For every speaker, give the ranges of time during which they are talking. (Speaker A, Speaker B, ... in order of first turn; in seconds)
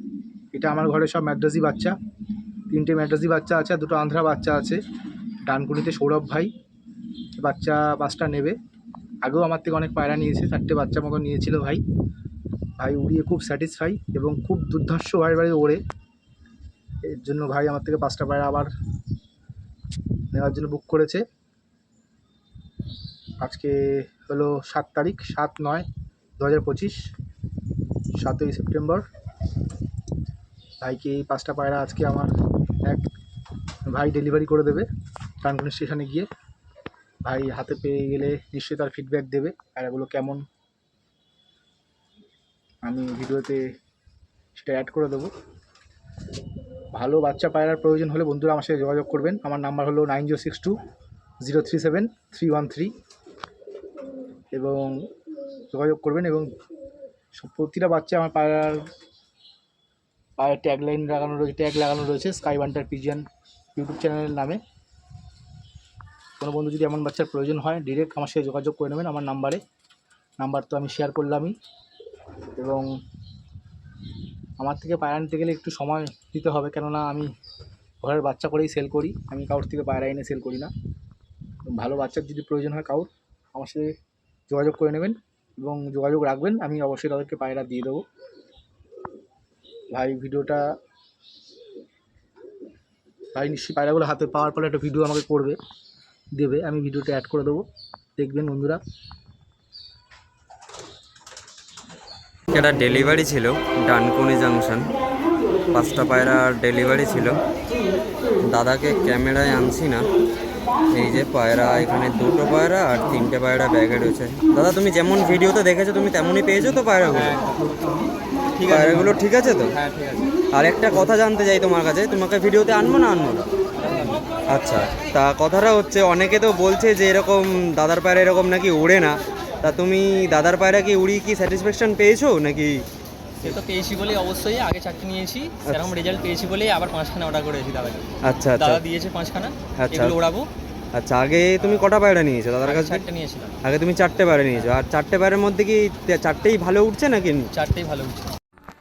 Speaker A: 0.5-1.9, 2.7-4.8, 5.5-6.5, 7.4-8.6, 9.2-11.8, 12.8-15.8, 17.1-18.7, 20.3-21.2, 23.4-25.9, 26.4-27.0, 28.2-29.0, 30.8-32.3, 33.9-34.9, 35.4-36.2, 37.2-40.4, 42.8-43.6, 44.5-45.3, 46.9-50.7, 51.4-52.9, 54.5-55.0, 55.7-56.5, 57.4-58.8, 60.4-63.2, 63.8-64.6, 66.4-69.6, 70.4-71.5, 72.5-72.9, 74.6-77.3, 78.0-80.7, 81.7-83.8, 84.5-88.0, 89.9-90.6, 93.3-95.6, 96.3-97.6, 98.2-98.8
Speaker B: 102.5-104.9, 105.7-107.4, 108.4-110.1, 110.9-117.3, 118.7-119.7, 120.5-123.5, 124.5-132.8, 135.7-135.9, 138.2-138.8, 139.8-140.2, 140.9-143.0, 143.6-147.5
Speaker C: 117.1-117.6, 118.6-119.2, 119.7-120.2, 123.8-124.2, 133.4-140.5, 141.6-141.9, 142.6-143.6, 147.5-148.3